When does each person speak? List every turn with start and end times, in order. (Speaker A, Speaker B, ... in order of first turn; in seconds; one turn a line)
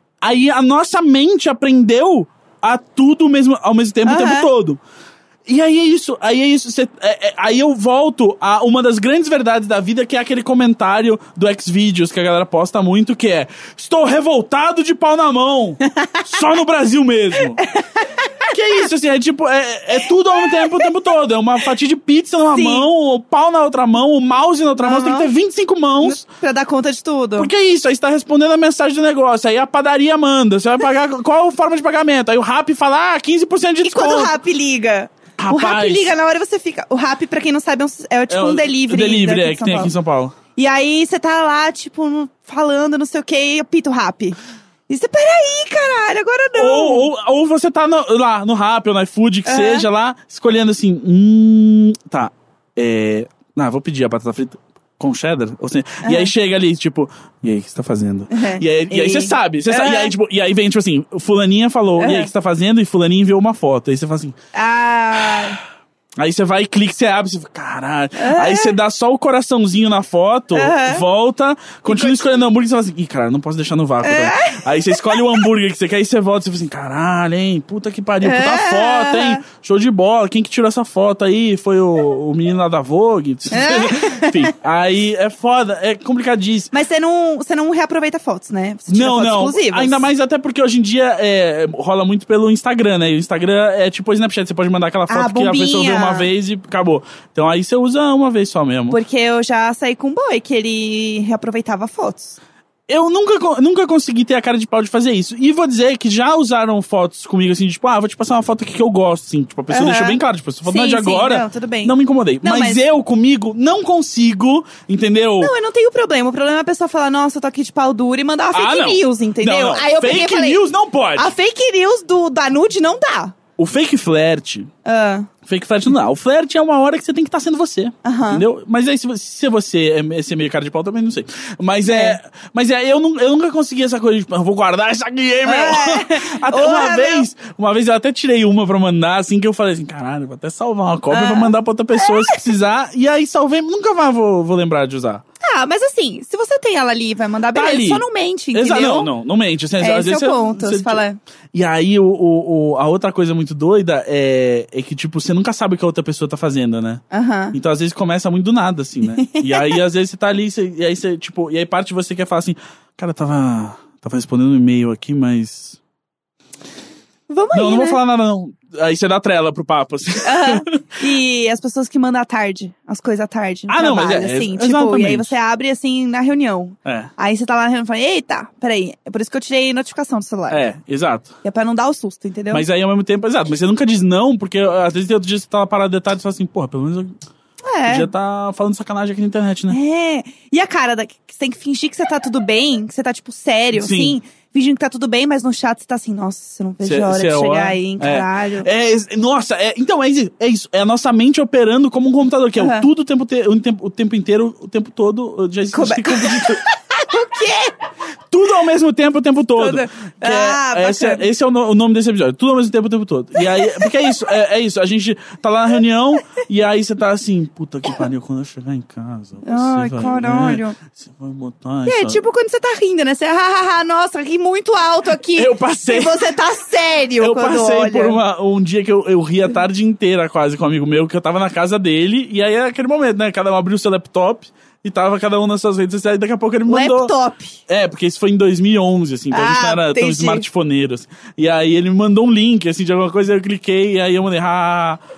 Speaker A: 0.2-4.8
Speaker B: 4.0-4.5
Speaker A: 5.5-17.6
Speaker B: 15.9-16.2
Speaker B: 17.6-18.3
Speaker A: 18.5-26.2
Speaker B: 20.5-20.9
Speaker B: 22.5-22.9
Speaker B: 24.8-25.3
Speaker B: 26.0-27.5
Speaker A: 27.4-34.3
Speaker B: 33.8-39.9
Speaker A: 35.4-36.1
Speaker A: 38.3-40.4
Speaker B: 40.6-44.4
Speaker B: 44.9-47.1
Speaker A: 46.6-64.4
Speaker B: 49.5-49.9
Speaker B: 56.0-56.3
Speaker B: 58.3-60.1
Speaker B: 62.0-62.3
Speaker B: 64.5-65.6
Speaker A: 66.2-86.7
Speaker B: 68.2-68.8
Speaker B: 70.5-71.0
Speaker B: 71.9-72.2
Speaker B: 74.0-75.3
Speaker B: 78.2-79.4
Speaker B: 83.5-84.5
Speaker B: 86.7-90.0
Speaker A: 88.9-99.0
Speaker B: 95.1-96.3
Speaker B: 98.9-102.4
Speaker A: 102.9-115.5
Speaker B: 109.7-112.8
Speaker B: 115.4-120.6
Speaker A: 118.5-121.3
Speaker B: 121.2-123.3
Speaker A: 123.6-124.7
Speaker B: 124.8-125.3
Speaker A: 125.5-145.2
Speaker B: 128.0-128.4
Speaker B: 131.9-132.2
Speaker B: 135.4-137.3
Speaker B: 141.1-142.4
Speaker B: 145.4-149.1
Speaker A: 147.5-148.0
Speaker A: 148.6-151.0
Speaker B: 149.8-151.2
Speaker A: 151.5-157.0
Speaker B: 157.1-157.6
Speaker A: 157.5-165.8
Speaker B: 159.2-159.8
Speaker B: 167.3-168.0
Speaker A: 167.5-171.0
Speaker B: 170.2-180.7
Speaker A: 173.7-175.3
Speaker A: 176.8-177.1
Speaker A: 180.5-181.3
Speaker B: 181.4-182.7
Speaker A: 182.5-187.2
Speaker B: 187.7-188.1
Speaker A: 187.9-189.8
Speaker B: 189.7-198.7
Speaker A: 193.8-194.2
Speaker A: 196.8-206.6
Speaker B: 202.6-202.9
Speaker B: 205.7-207.7
Speaker A: 208.3-222.2
Speaker B: 209.6-211.3
Speaker B: 219.4-220.8
Speaker B: 221.9-228.2
Speaker A: 225.4-226.3
Speaker A: 227.2-237.1
Speaker B: 236.7-237.6
Speaker A: 237.7-245.0
Speaker B: 239.3-240.4